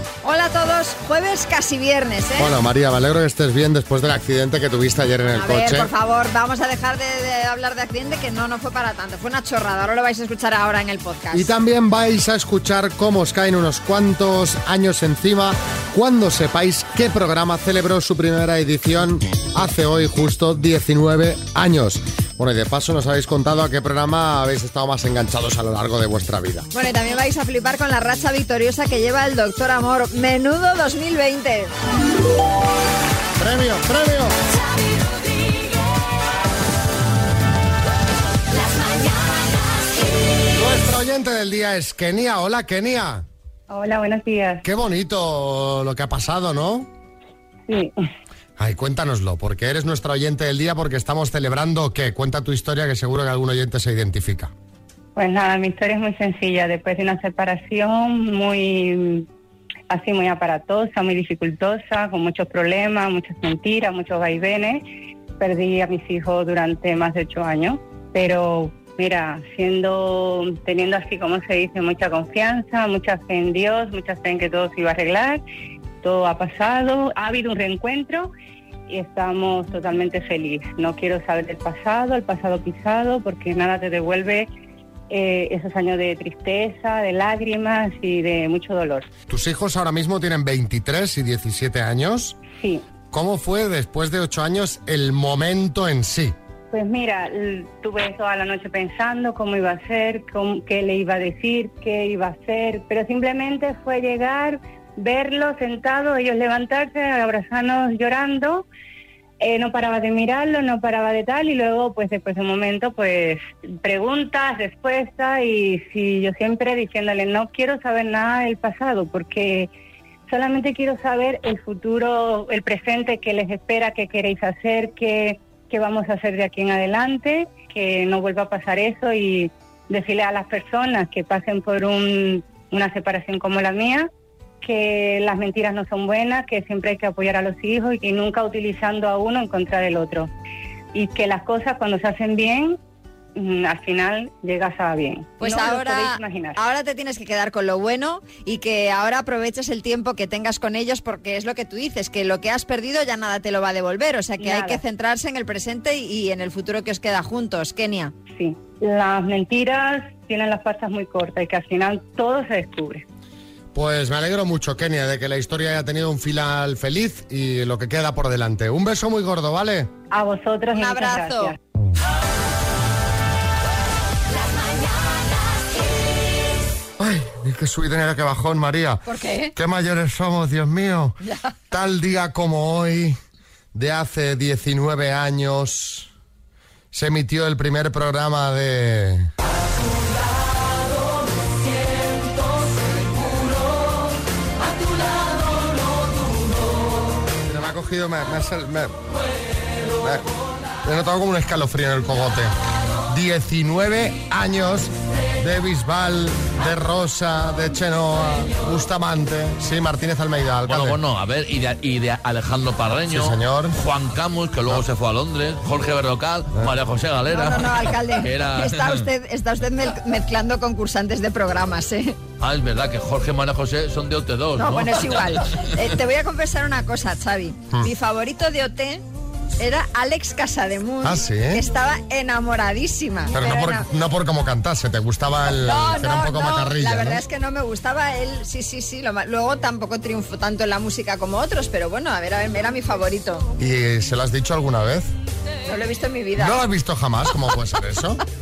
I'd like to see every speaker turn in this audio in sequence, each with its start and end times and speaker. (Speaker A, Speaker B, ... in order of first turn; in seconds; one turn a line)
Speaker A: 0.2-2.5
Speaker B: 2.4-5.9
Speaker A: 5.3-11.5
Speaker B: 11.3-26.7
Speaker A: 26.7-31.7
Speaker B: 33.4-34.4
Speaker B: 40.5-43.2
Speaker C: 43.7-44.6
Speaker B: 44.6-46.9
Speaker C: 47.7-47.9
Speaker B: 48.6-54.5
Speaker C: 55.1-59.3
Speaker C: 59.9-64.8
Speaker C: 65.4-75.4
Speaker C: 76.0-78.3
Speaker C: 78.9-84.5
Speaker C: 85.1-89.1
Speaker B: 89.3-92.3
Speaker C: 92.5-92.8
Speaker B: 93.1-96.3
Speaker C: 96.7-108.7
Speaker C: 109.4-119.7
Speaker C: 120.3-134.1
Speaker C: 134.6-140.3
Speaker C: 140.9-142.8
Speaker C: 143.3-146.6
Speaker A: 145.4-158.1
Speaker C: 154.4-154.8
Speaker C: 158.3-163.0
Speaker B: 163.7-169.9
Speaker C: 170.1-171.6
Speaker A: 170.7-171.5
Speaker B: 177.0-181.2
Speaker A: 179.1-179.5
Speaker A: 181.2-181.5
Speaker B: 181.7-183.2
Speaker B: 183.7-186.1
Speaker B: 186.9-189.3
Speaker B: 197.4-198.9
Speaker B: 200.0-200.3
Speaker B: 200.8-202.5
Speaker B: 203.1-211.0
Speaker D: 210.7-219.1
Speaker B: 213.1-213.8
Speaker A: 217.3-222.2
Speaker D: 222.4-225.4
Speaker A: 224.6-229.0
Speaker A: 229.6-233.8
Speaker B: 231.0-231.6
Speaker B: 233.3-237.2
Speaker A: 235.6-243.5
Speaker B: 243.6-245.1
Speaker A: 245.7-246.6
Speaker B: 246.3-248.2